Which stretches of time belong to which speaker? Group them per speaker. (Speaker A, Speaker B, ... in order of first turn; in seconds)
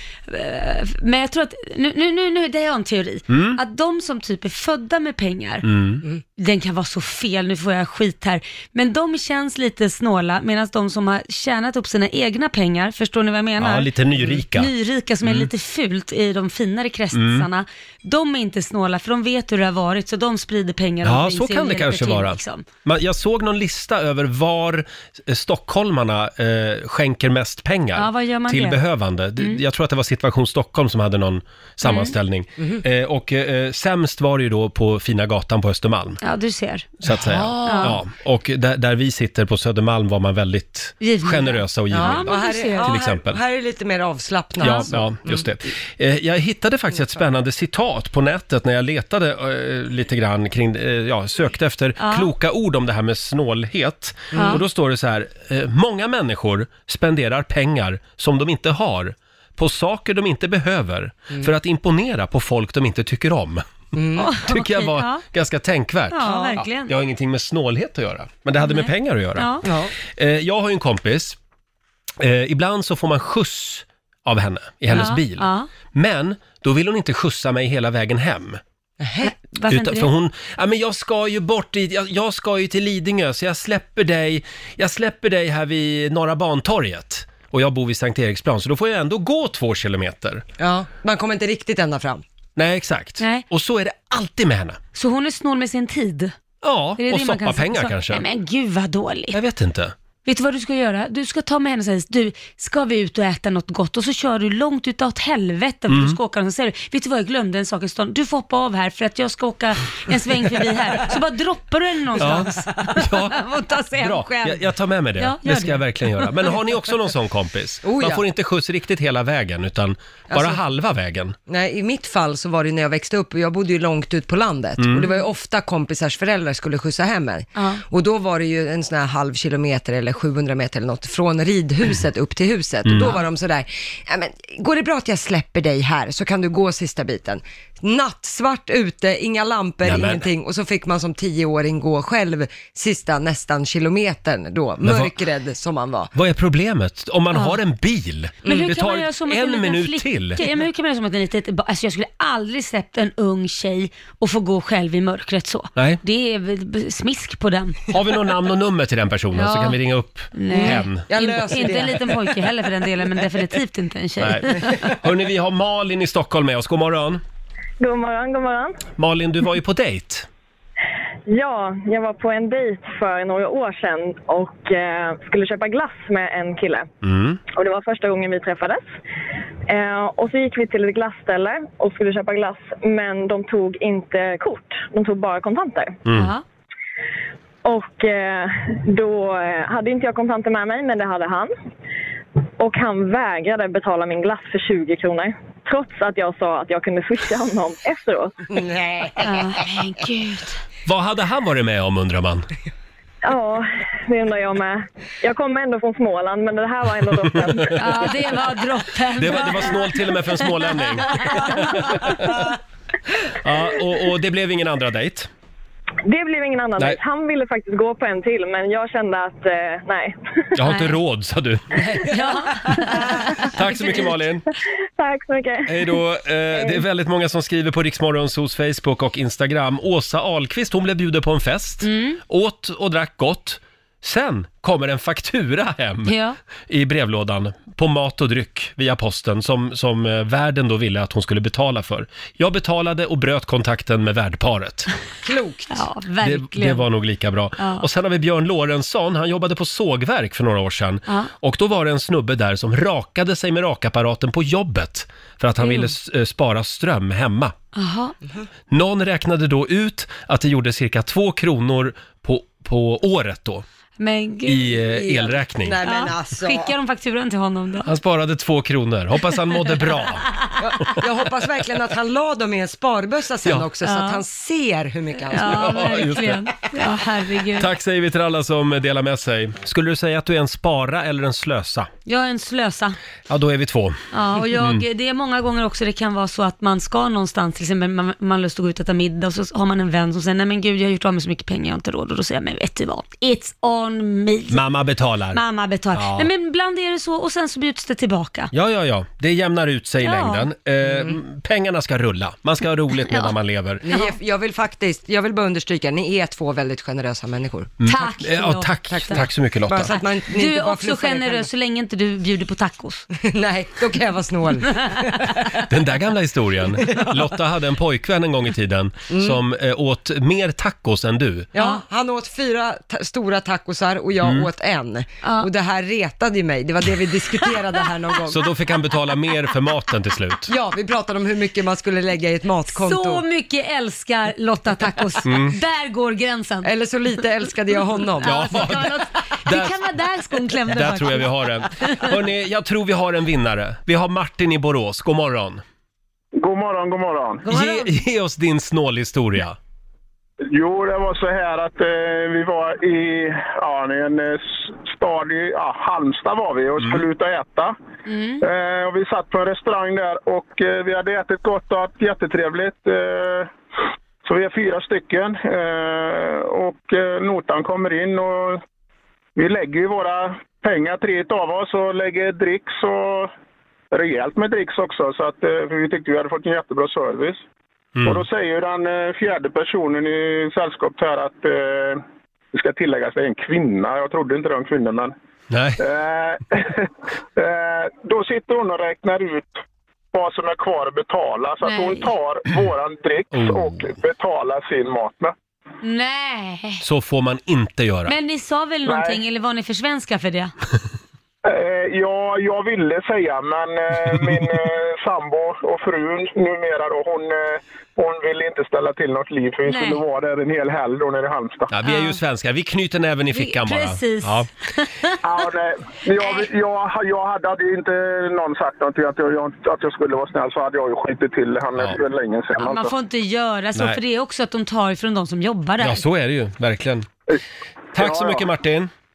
Speaker A: 0.3-5.7, 6.4-22.6, 28.0-28.8, 31.8-32.1, 36.2-36.9, 37.6-38.0, 41.0-42.9, 44.6-44.9, 52.0-52.3, 54.4-54.6, 64.2-65.2, 66.1-66.9, 68.6-69.7, 74.9-75.7, 79.2-80.1, 93.2-93.5, 95.0-96.3, 97.0-99.4, 100.3-114.7, 115.2-116.5, 147.3-147.6, 148.5-157.9, 159.3-159.8, 160.3-164.8, 186.1-186.4, 199.2-200.6, 207.8-209.9, 211.0-211.4, 221.9-223.0, 231.8-232.2, 236.1-236.4, 245.7-246.9, 247.6-247.8, 257.7-258.1, 264.0-264.9, 265.8-267.9, 269.9-270.6, 273.8-274.2, 275.3-277.7, 282.1-283.0, 284.1-294.6, 295.3-298.5, 300.0-300.5, 303.1-303.3, 303.9-304.1, 307.9-309.2, 310.3-313.1, 314.9-315.2, 321.6-321.8, 325.2-325.5, 332.7-336.7, 338.2-342.2, 347.4-347.9, 358.1-358.4, 391.6-392.1, 395.8-396.8, 398.1-400.5, 409.7-410.0, 411.8-412.2, 413.3-415.2, 422.6-426.0
Speaker B: 3.3-3.6, 5.6-6.0, 13.6-14.7, 15.2-15.5, 17.1-17.5, 21.1-36.2, 37.0-43.4, 44.6-63.7, 64.4-69.5, 70.1-71.4, 72.2-78.6, 79.6-90.4, 92.6-94.8, 96.6-98.2, 99.3-99.9, 105.9-106.2, 112.2-113.4, 114.0-121.4, 124.8-125.1, 132.8-133.2, 139.8-140.3, 144.8-145.1, 146.1-150.4, 157.9-161.1, 164.2-167.2, 169.0-170.3, 177.0-177.4, 186.1-186.3, 200.9-202.5, 207.2-207.7, 209.2-212.4, 213.4-215.3, 220.6-221.8, 223.5-224.4, 225.7-236.2, 236.7-244.9, 246.2-257.6, 258.7-263.6, 264.5-265.8, 267.9-270.3, 275.4-276.5, 277.6-281.9, 283.3-284.0, 284.6-284.8, 294.5-295.4, 295.9-296.3, 298.5-303.8, 307.8-310.0, 315.7-321.5, 324.2-324.5, 328.3-330.5, 335.2-335.6, 338.2-338.9, 339.5-339.7, 340.7-345.6, 347.5-349.6, 378.0-378.2, 385.5-385.8, 393.3-393.8, 396.8-398.1, 411.7-414.5, 425.8-427.1, 427.9-428.9
Speaker C: 41.9-45.4, 54.3-54.6, 63.9-64.3, 66.2-66.6, 69.6-69.9, 79.0-79.3, 90.6-92.2, 117.8-118.2, 120.3-120.6, 121.5-146.1, 160.5-162.4, 198.5-199.5, 245.2-245.9, 265.0-266.7, 270.6-276.0, 300.9-301.2, 303.8-307.8, 308.9-311.5, 313.2-315.5, 316.8-317.1, 319.1-319.4, 321.6-328.4, 330.5-333.2, 334.7-335.3, 336.6-338.7
Speaker D: 167.8-168.8, 171.3-176.9, 177.5-178.8, 179.7-186.0, 187.7-191.5, 192.6-198.4, 203.2-208.1, 216.1-220.8, 225.0-226.0
Speaker E: 346.4-347.4, 350.5-357.8, 358.4-363.5, 364.2-368.6, 369.4-373.3, 373.9-377.4, 378.1-382.0, 382.5-385.1, 385.8-389.6, 390.1-395.3, 398.9-399.2, 401.4-411.7, 415.2-422.9, 427.9-428.4